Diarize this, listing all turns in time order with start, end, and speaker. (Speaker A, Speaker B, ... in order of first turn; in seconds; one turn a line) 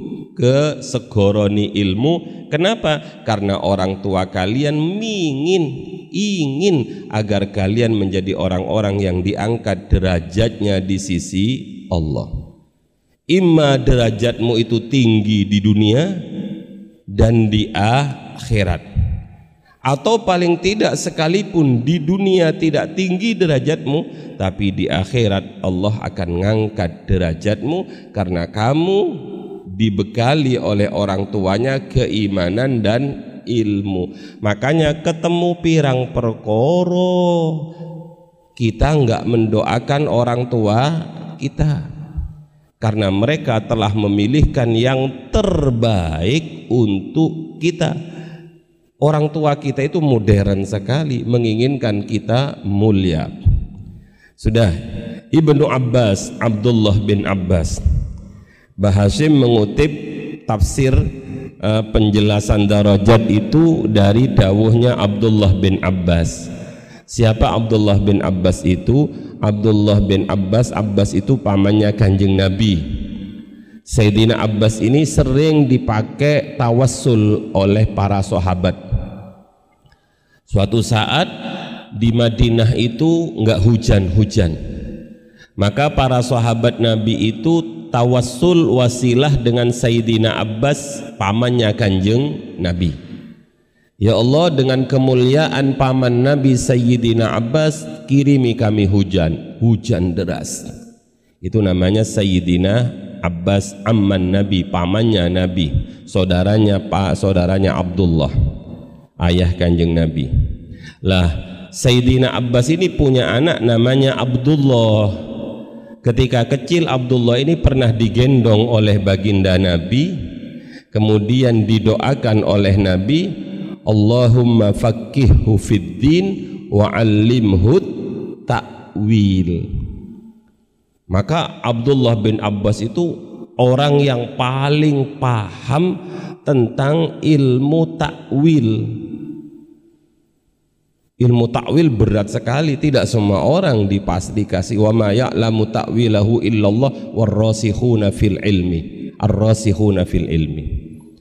Speaker A: 0.4-12.3
Speaker A: 13.3-16.1
Speaker A: 17.2-18.8
Speaker A: 19.9-29.0
Speaker A: 29.8-37.5
Speaker A: 38.6-41.8
Speaker A: 42.8-47.9
Speaker A: 49.0-53.3
Speaker A: 54.4-54.7
Speaker A: 55.4-57.8
Speaker A: 58.8-59.9
Speaker A: 60.5-61.0
Speaker A: 61.6-66.4
Speaker A: 67.1-72.8
Speaker A: 73.9-78.8
Speaker A: 80.5-81.3
Speaker A: 82.0-84.6
Speaker A: 85.6-92.9
Speaker A: 94.0-100.6
Speaker A: 101.4-108.3
Speaker A: 109.2-110.3
Speaker A: 111.0-115.1
Speaker A: 116.0-120.1
Speaker A: 120.9-123.2
Speaker A: 123.9-127.9
Speaker A: 128.5-129.7
Speaker A: 131.1-135.9
Speaker A: 136.4-138.8
Speaker A: 141.2-150.7